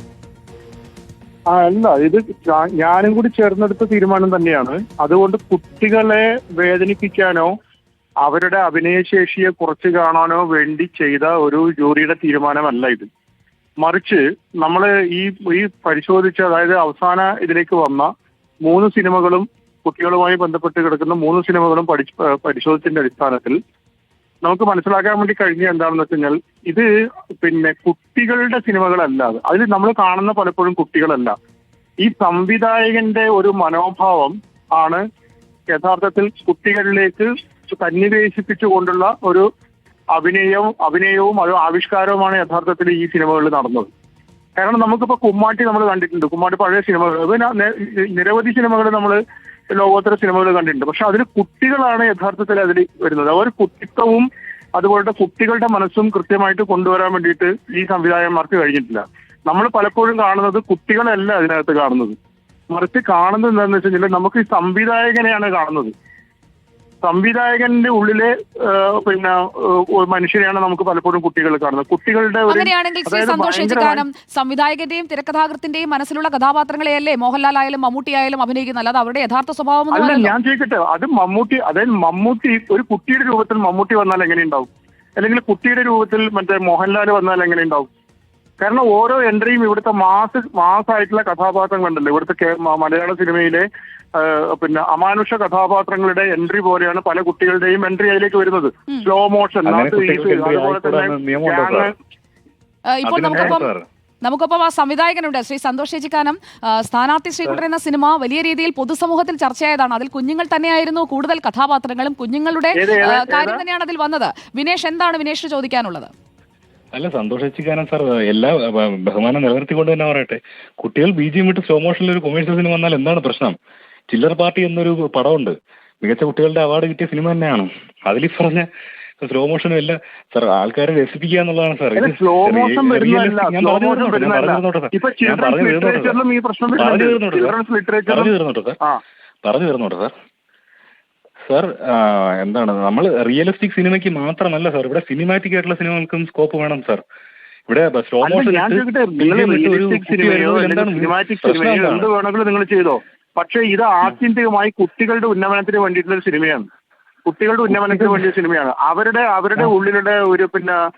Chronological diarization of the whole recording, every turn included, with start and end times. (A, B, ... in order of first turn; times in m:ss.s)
0:01.5-0:07.5 A
0:08.2-0:13.1 A
0:13.8-0:18.1 A
0:18.6-0:23.6 A
0:24.4-0:26.9 A
0:27.4-0:31.3 A
0:32.0-0:35.0 A
0:35.7-0:39.5 A
0:40.1-0:43.9 A
0:44.6-0:49.2 A
0:49.7-1:02.2 A
1:02.7-1:05.9 A
1:07.0-1:14.0 A
1:12.5-1:20.3 B
1:19.9-1:27.9 A
1:28.6-1:41.9 A
1:39.6-1:41.9 C
1:42.9-1:43.7 B
1:43.0-1:43.8 C
1:44.2-1:56.1 B
1:52.8-1:53.6 A
1:56.9-2:03.6 C
2:04.1-2:08.7 C
2:09.2-2:16.2 C
2:12.0-2:19.0 A
2:16.8-2:17.5 C
2:18.1-2:18.8 C
2:19.4-2:20.1 C
2:21.4-2:27.0 C
2:27.7-2:32.1 C
2:28.2-2:36.7 A
2:37.2-2:40.8 A
2:37.7-2:38.2 C